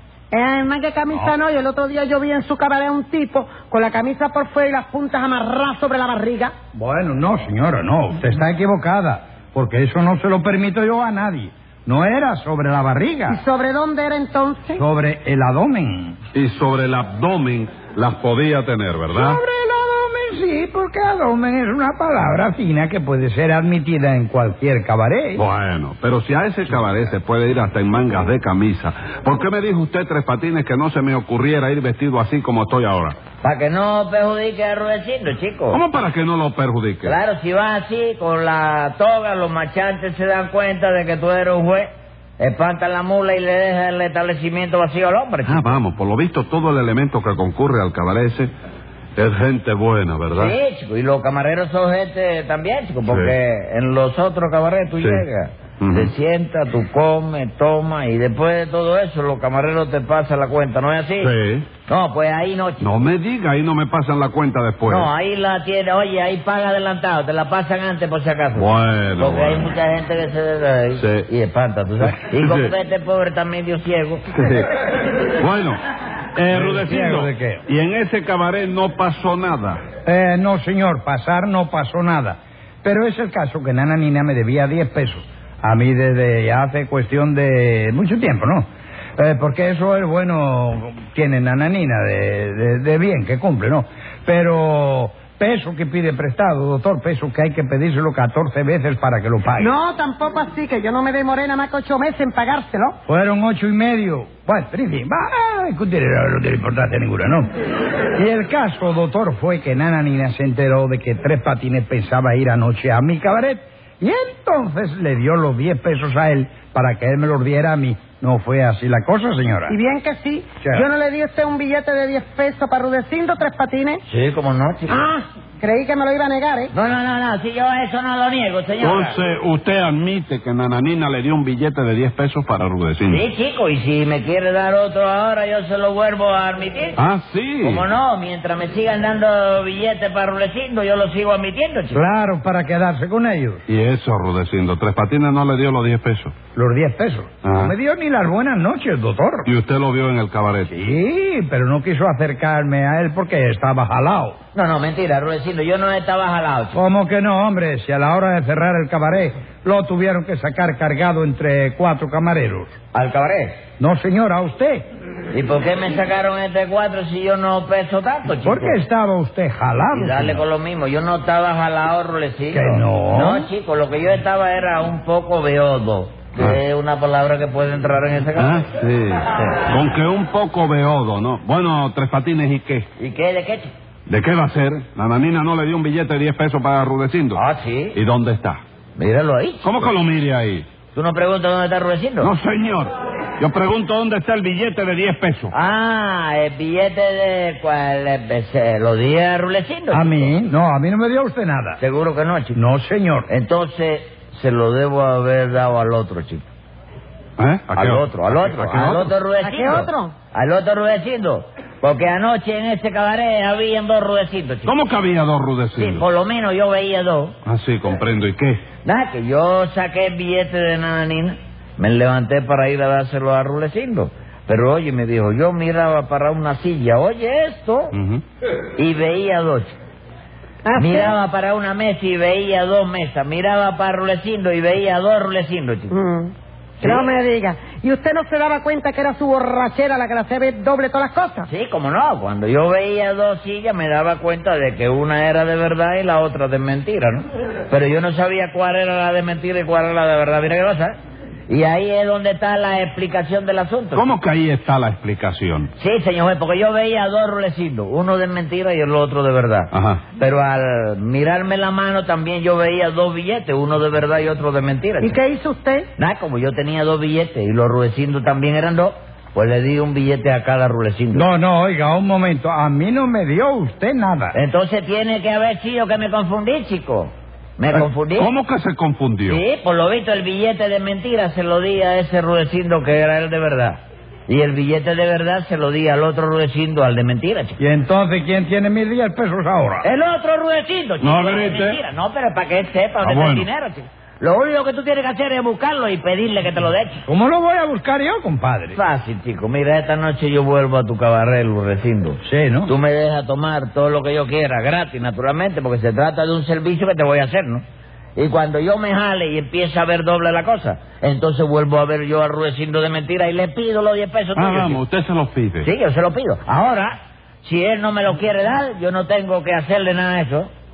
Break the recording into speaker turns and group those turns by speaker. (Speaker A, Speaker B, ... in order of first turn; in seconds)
Speaker A: 0.3-6.5, 13.3-14.8, 99.6-103.0, 119.7-124.0, 124.9-126.7, 209.4-210.1, 230.6-231.2, 235.9-241.5, 265.0-265.9
Speaker B: 6.7-13.4, 14.8-16.2, 19.1-25.4, 76.5-77.6, 80.0-99.7, 103.0-107.5, 108.2-119.8, 120.6-120.9, 141.9-143.6, 146.5-149.5, 150.7-154.4, 156.7-162.7, 163.8-164.8, 168.4-170.4, 172.5-173.5, 199.9-201.8, 202.5-203.3, 271.1-274.4, 287.6-289.9, 297.1-298.8, 302.2-302.7
Speaker C: 16.3-19.4, 25.4-33.1, 35.7-37.1, 45.5-48.5, 49.1-50.5, 53.1-53.3, 55.0-55.2, 55.8-56.1, 61.2-61.7, 62.8-65.1, 68.5-69.7, 70.9-71.3, 72.0-72.7, 74.3-74.7, 75.3-75.8, 76.3-79.8, 128.8-133.2, 137.0-137.8, 143.7-146.3, 147.4-147.7, 149.4-150.7, 178.3-182.9, 184.1-187.4, 187.9-188.6, 189.6-190.7, 192.2-195.5, 207.4-209.1, 214.6-216.1, 217.4-218.6, 227.9-228.2, 253.9-255.7, 259.7-260.0, 277.7-279.4, 291.0-291.8, 293.0-293.5, 314.3-315.7
Speaker D: 33.4-35.8, 37.0-45.8, 50.3-61.3, 61.9-62.8, 64.8-74.2, 124.1-125.0, 126.7-129.2, 133.1-137.0, 137.6-142.0, 154.5-156.8, 162.9-163.6, 165.3-168.8, 169.9-178.6, 179.3-179.6, 183.0-183.7, 187.3-188.0, 188.9-189.8, 190.9-192.3, 195.5-200.3, 201.8-202.6, 203.3-206.5, 207.7-214.7, 215.8-217.3, 218.8-227.9, 228.8-229.8, 230.7-235.9, 241.5-250.9, 251.5-254.1, 255.8-265.2, 266.0-271.3, 274.3-278.3, 279.2-287.6, 289.8-297.0, 298.7-307.6, 308.1-314.8, 315.6-320.5